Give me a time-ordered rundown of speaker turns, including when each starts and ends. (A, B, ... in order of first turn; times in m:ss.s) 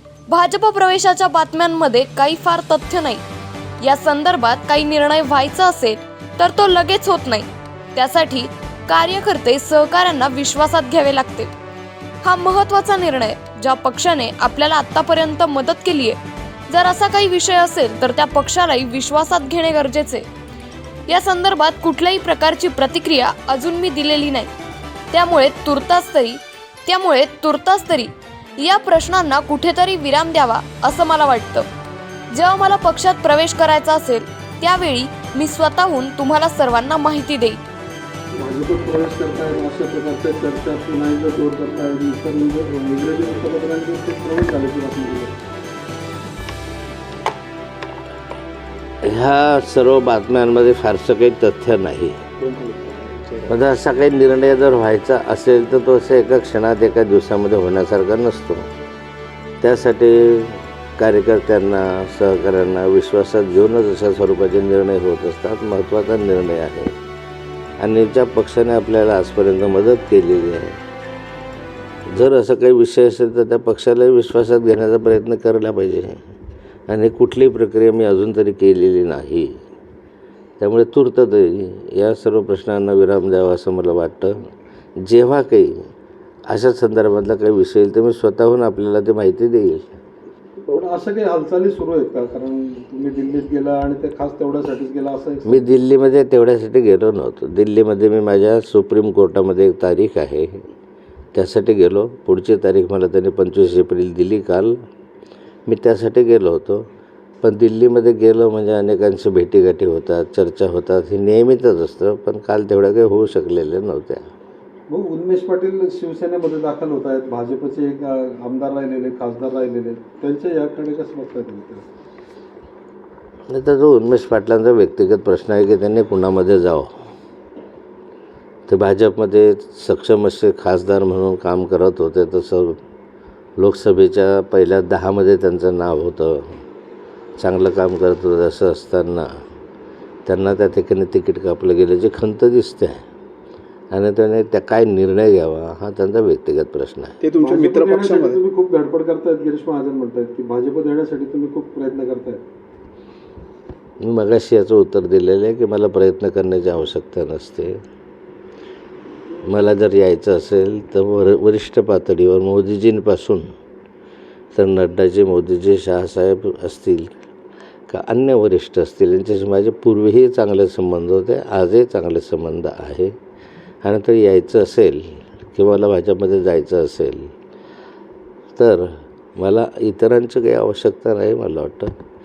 0:00.3-0:03.2 A
0:03.8-0:11.5 A
0:12.2-0:16.2 A
0:16.7-0:20.3 A
0:21.1-0:24.5 A
0:25.1-0:31.7 A
0:32.3-0:37.6 A
0:38.4-0:45.4 B
0:49.0-0:52.2 C
0:52.4-0:53.5 D
0:53.5-0:58.6 C
0:59.6-1:06.9 C
1:07.8-1:10.8 C
1:12.1-1:16.2 C
1:16.9-1:19.6 C
1:20.6-1:24.4 C
1:25.0-1:25.8 C
1:26.5-1:29.9 C
1:30.7-1:35.7 B
1:35.5-1:40.6 C
1:41.3-1:44.8 C
1:45.7-1:46.8 C
1:47.4-1:54.2 C
1:54.9-2:01.8 B
2:03.5-2:06.9 C
2:08.7-2:12.8 C
2:13.6-2:16.4 C
2:17.4-2:19.3 C
2:20.3-2:23.0 C
2:23.9-2:27.2 C
2:27.2-2:28.4 D
2:27.4-2:32.4 B
2:34.0-2:37.8 C
2:39.4-2:43.5 C
2:44.5-2:47.1 C
2:47.9-2:53.1 C
2:53.8-2:57.3 C
2:58.6-3:01.9 C